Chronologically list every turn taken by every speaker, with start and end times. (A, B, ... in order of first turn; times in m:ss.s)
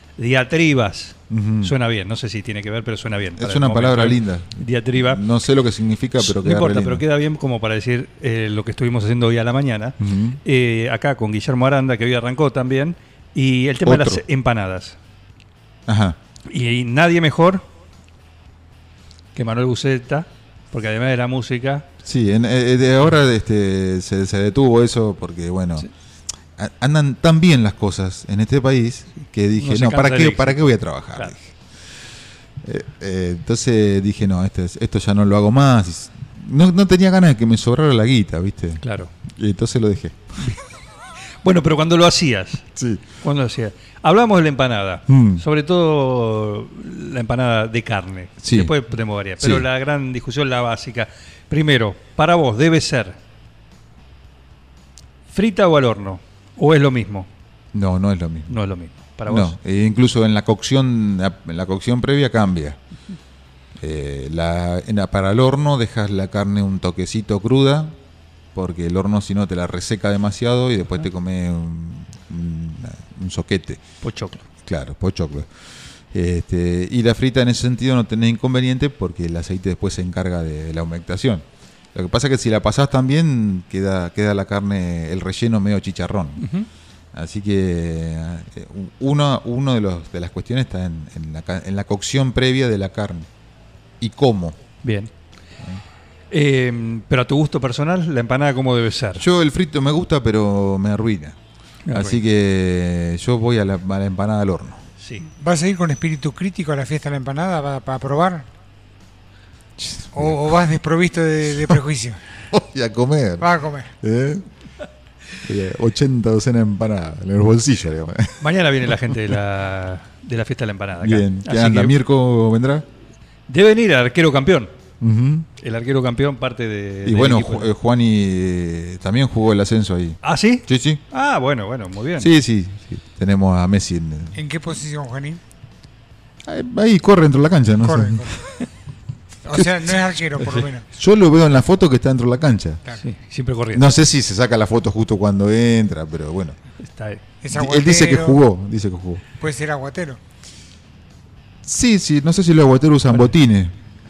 0:00.2-0:05.2 A
0:01.3-0:01.7 B
0:03.4-0:07.0 B
0:06.2-0:15.0 A
0:10.0-0:10.4 B
0:13.8-0:14.2 B
0:15.9-0:16.2 B
0:16.5-0:17.6 A
0:19.4-0:21.8 A
0:22.0-0:25.9 B
0:26.6-0:31.5 B
0:29.6-0:31.3 A
0:32.6-0:40.5 B
0:38.8-0:39.1 A
0:41.4-0:42.7 A
0:42.8-0:43.0 B
0:43.2-0:53.2 A
0:45.1-0:45.4 B
0:48.4-0:48.7 B
0:49.4-0:49.6 B
0:55.3-0:57.3 A
0:57.7-0:58.6 B
0:58.5-0:59.6 A
0:59.3-1:02.8 B
1:03.8-1:08.0 B
1:08.5-1:13.8 B
1:14.0-1:14.4 A
1:14.6-1:26.5 B
1:26.4-1:26.7 A
1:27.1-1:33.3 B
1:34.0-1:34.6 B
1:34.8-1:35.1 A
1:36.3-1:39.2 A
1:39.2-1:41.4 B
1:41.9-1:42.2 A
1:41.9-1:44.8 B
1:45.0-1:45.2 A
1:45.4-1:48.5 C
1:49.8-1:50.6 B
1:50.1-1:52.2 C
1:52.5-1:54.5 B
1:53.4-1:53.9 C
1:55.4-1:58.4 B
1:58.4-2:01.9 A
2:01.0-2:02.9 B
2:03.5-2:04.7 A
2:05.0-2:05.5 B
2:05.6-2:07.7 A
2:07.0-2:11.0 B
2:10.2-2:12.3 A
2:12.2-2:14.4 B
2:14.4-2:15.4 C
2:16.4-2:18.4 B
2:17.8-2:18.4 C
2:19.4-2:20.8 C
2:19.6-2:19.9 B
2:20.9-2:22.8 B
2:23.0-2:23.9 A
2:23.7-2:26.6 B
2:26.8-2:27.2 A
2:27.4-2:28.4 C
2:27.5-2:29.2 B
2:29.4-2:30.2 C
2:31.6-2:33.7 B